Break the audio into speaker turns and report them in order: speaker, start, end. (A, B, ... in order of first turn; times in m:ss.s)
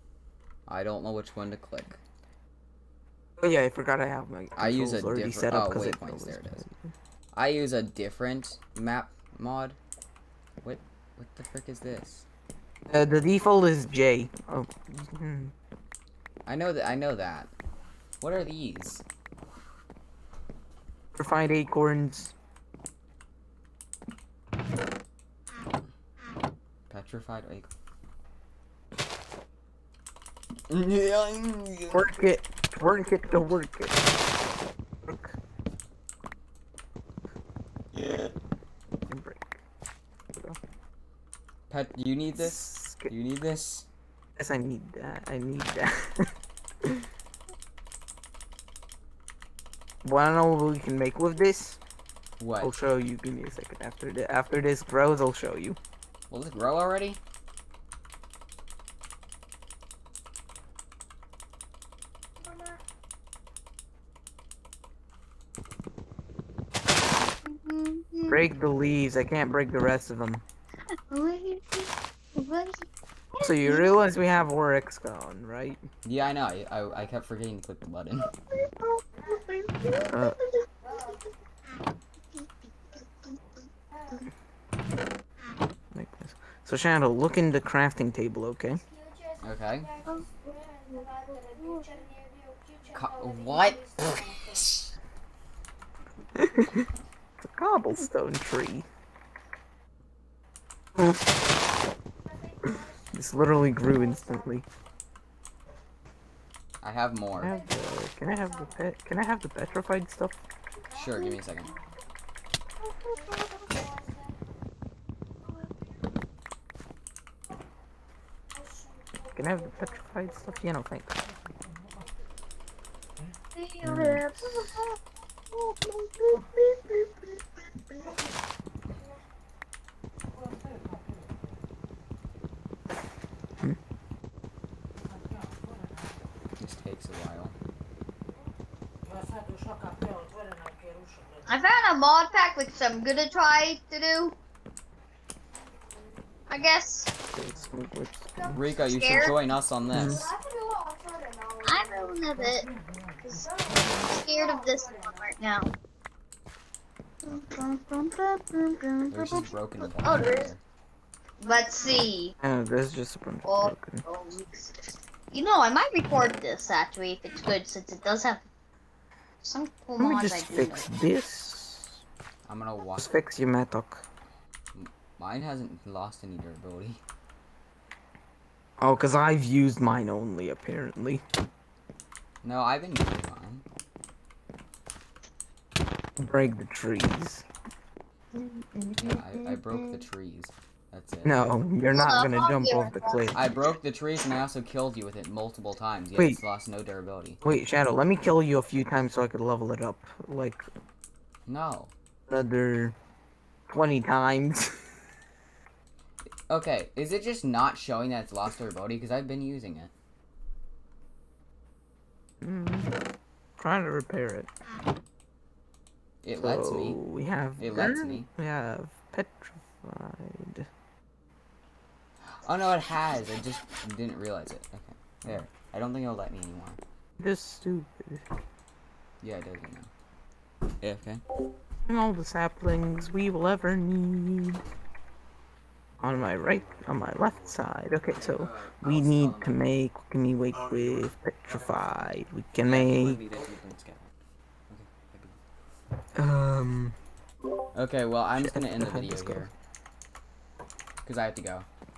0:00.7-0:02.0 A
0:03.4-0:06.9 B
0:04.6-0:06.6 A
0:07.3-0:09.8 A
0:10.6-0:12.2 A
0:12.9-0:15.5 B
0:16.5-0:17.5 A
0:18.2-0:19.0 A
0:21.1-0:22.3 B
0:26.9-0:27.7 A
0:30.7-0:32.1 A
0:31.9-0:34.1 B
0:35.0-0:35.4 B
0:37.9-0:38.3 A
0:39.1-0:39.6 B
0:41.7-0:43.8 A
0:42.4-0:43.1 B
0:44.4-0:46.3 B
0:50.0-0:51.8 B
0:52.4-0:52.7 A
0:52.6-0:55.8 B
0:56.3-0:57.2 A
1:07.4-1:08.4 C
1:08.3-1:10.4 B
1:11.1-1:14.0 C
1:13.4-1:15.8 B
1:16.0-1:18.3 A
1:18.5-1:20.3 C
1:20.1-1:20.4 B
1:20.9-1:21.2 C
1:25.9-1:28.8 B
1:29.4-1:30.0 A
1:30.1-1:32.0 C
1:32.9-1:34.9 A
1:36.3-1:36.9 B
1:37.6-1:38.9 B
1:43.1-1:44.6 B
1:46.8-1:47.5 A
1:47.3-1:50.4 B
1:50.9-1:51.7 A
1:59.3-2:01.2 B
2:03.5-2:04.9 C
2:03.8-2:04.7 B
2:05.5-2:07.2 B
2:16.6-2:17.5 A
2:21.4-2:24.4 C
2:26.5-2:27.1 C
2:27.3-2:28.6 B
2:28.5-2:30.3 A
2:28.8-2:29.3 C
2:29.9-2:30.2 B
2:31.6-2:32.7 C
2:33.2-2:35.7 C
2:37.2-2:40.5 C
2:39.1-2:40.6 A
2:41.4-2:42.3 C
2:42.4-2:44.0 B
2:43.4-2:44.8 C
2:45.3-2:48.4 C
2:49.4-2:50.9 C
2:50.0-2:52.0 B
2:52.5-2:53.1 A
2:53.0-2:54.0 B
2:54.7-2:57.0 A
2:58.8-3:01.2 B
3:02.4-3:03.6 A
3:06.2-3:07.4 B
3:08.4-3:09.7 C
3:08.9-3:11.7 A
3:11.2-3:13.4 B
3:11.9-3:13.2 C
3:13.3-3:17.4 A
3:17.4-3:20.6 B
3:21.5-3:21.9 A
3:22.3-3:22.9 B
3:23.7-3:24.8 B
3:26.5-3:29.9 A
3:32.4-3:32.9 B
3:33.6-3:34.5 B
3:36.2-3:37.0 A
3:36.4-3:40.7 B
3:37.6-3:38.3 A
3:42.3-3:46.8 A
3:47.2-3:48.2 B
3:49.2-3:49.9 A
3:50.8-3:51.2 A
3:51.8-3:54.6 B
3:56.0-4:03.2 B
3:58.1-3:59.6 A
4:02.6-4:04.1 A
4:04.7-4:05.4 A
4:06.1-4:07.0 B
4:07.7-4:09.5 A
4:08.4-4:09.4 B
4:11.0-4:11.7 A